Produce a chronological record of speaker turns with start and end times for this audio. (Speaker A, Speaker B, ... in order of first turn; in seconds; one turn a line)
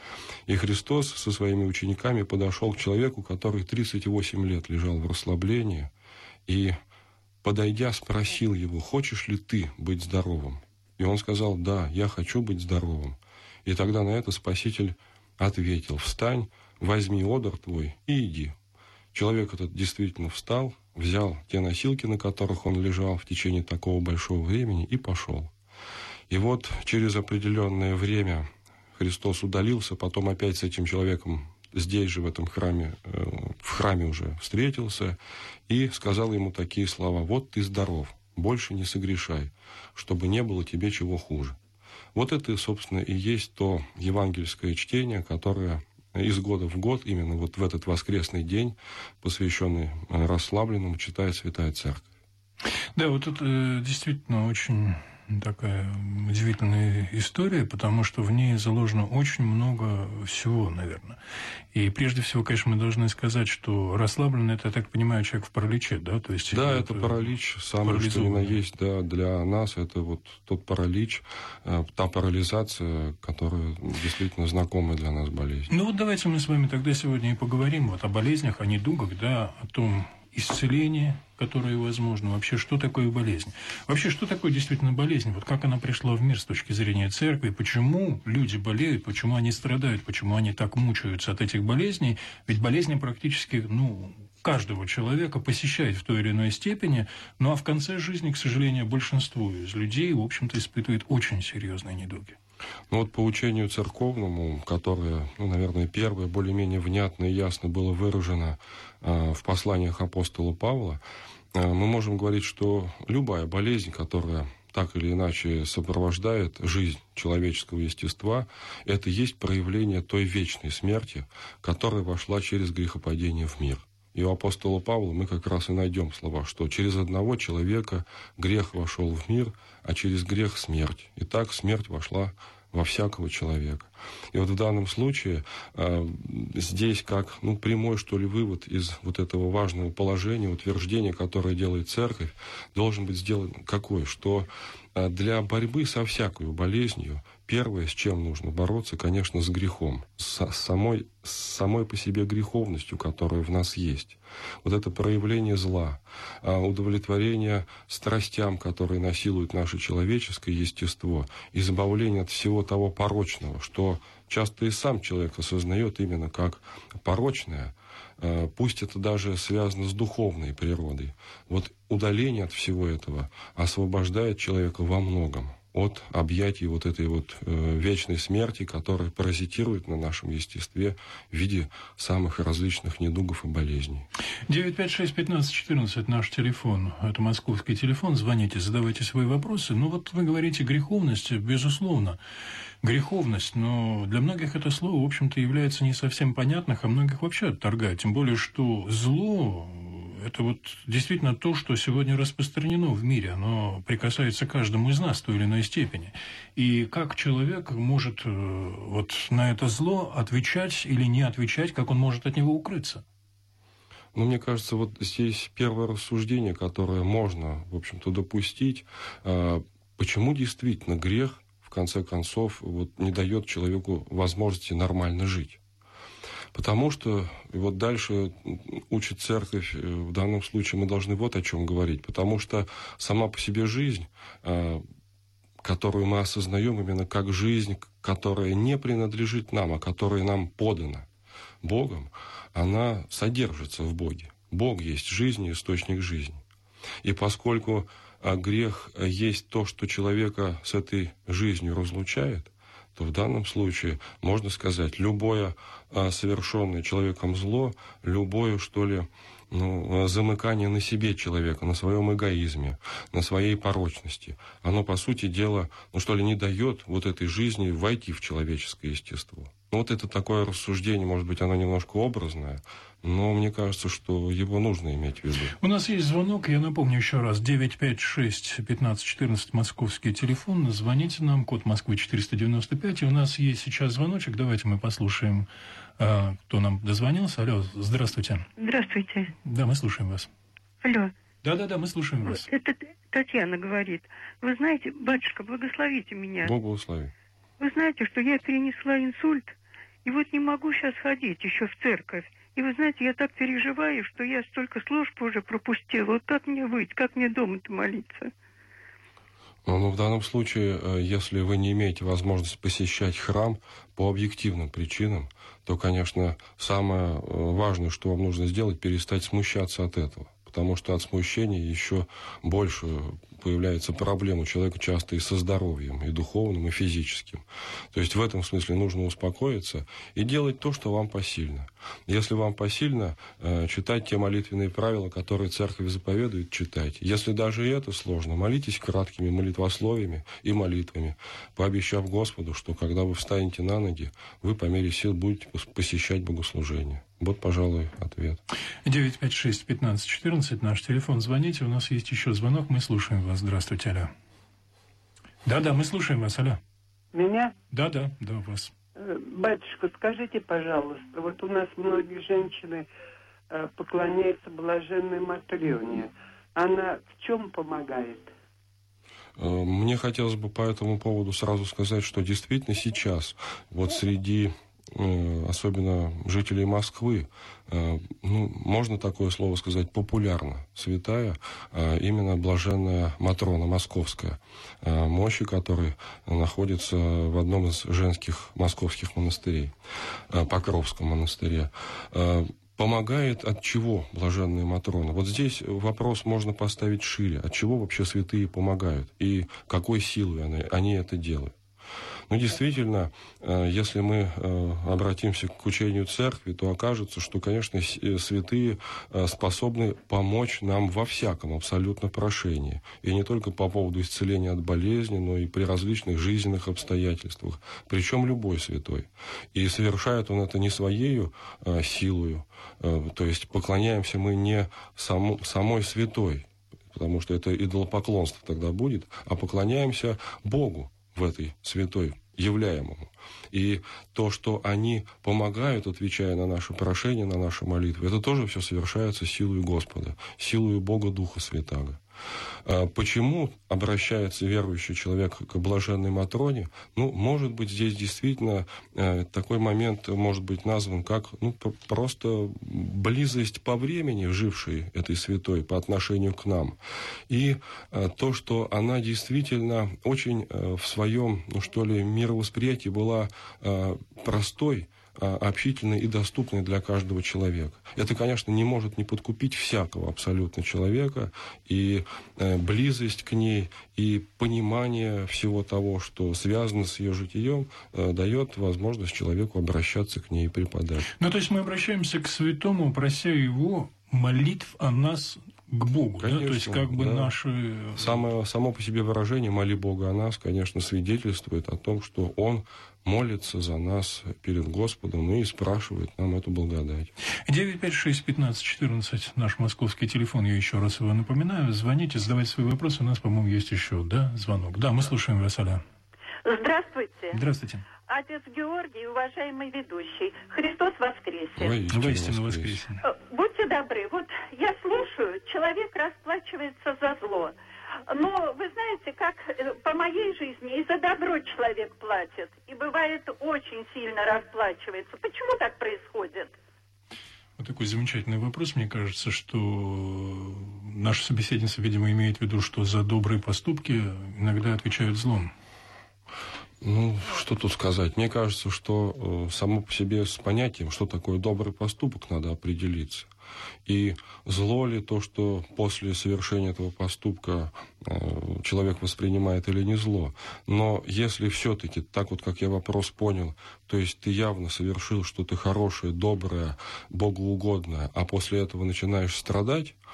Speaker A: 0.5-5.9
Speaker A: 6.5-6.8
Speaker A: 7.4-18.5
Speaker A: 19.1-25.5
Speaker A: 26.3-41.6
Speaker A: 42.1-52.1
Speaker B: 53.0-61.2
Speaker B: 61.7-67.3
Speaker A: 66.5-75.7
Speaker B: 67.8-68.6
Speaker B: 75.7-102.4
Speaker A: 102.9-111.0
Speaker A: 111.5-184.1
Speaker B: 184.5-192.2
Speaker B: 192.8-213.0
Speaker A: 214.1-225.6
Speaker A: 226.5-234.8
Speaker A: 235.6-241.1
Speaker A: 241.6-246.4
Speaker A: 247.0-275.6
Speaker B: 275.6-288.5
Speaker C: 288.6-289.3
Speaker B: 289.4-290.3
Speaker C: 290.8-291.1
Speaker B: 291.4-292.5
Speaker C: 292.2-296.5
Speaker A: 296.4-297.1
Speaker C: 297.6-299.5
Speaker C: 300.1-308.3
Speaker A: 309.6-348.4
Speaker B: 348.9-354.1
Speaker B: 355.4-356.6
Speaker D: 357.1-357.5
Speaker B: 357.7-358.7
Speaker D: 359.0-362.9
Speaker D: 363.5-368.3
Speaker A: 369.4-389.7
Speaker A: 390.3-401.5
Speaker A: 402.3-442.0
Speaker A: 442.6-481.1
Speaker B: 481.1-488.2
Speaker A: 486.2-487.3
Speaker A: 488.0-497.1
Speaker B: 497.5-505.8
Speaker E: 506.4-507.4
Speaker B: 507.3-507.9
Speaker E: 508.1-511.8
Speaker A: 511.6-512.8
Speaker B: 511.9-513.0
Speaker E: 513.0-517.5
Speaker E: 518.1-526.6
Speaker B: 527.6-535.5
Speaker A: 536.8-543.3
Speaker A: 543.9-560.0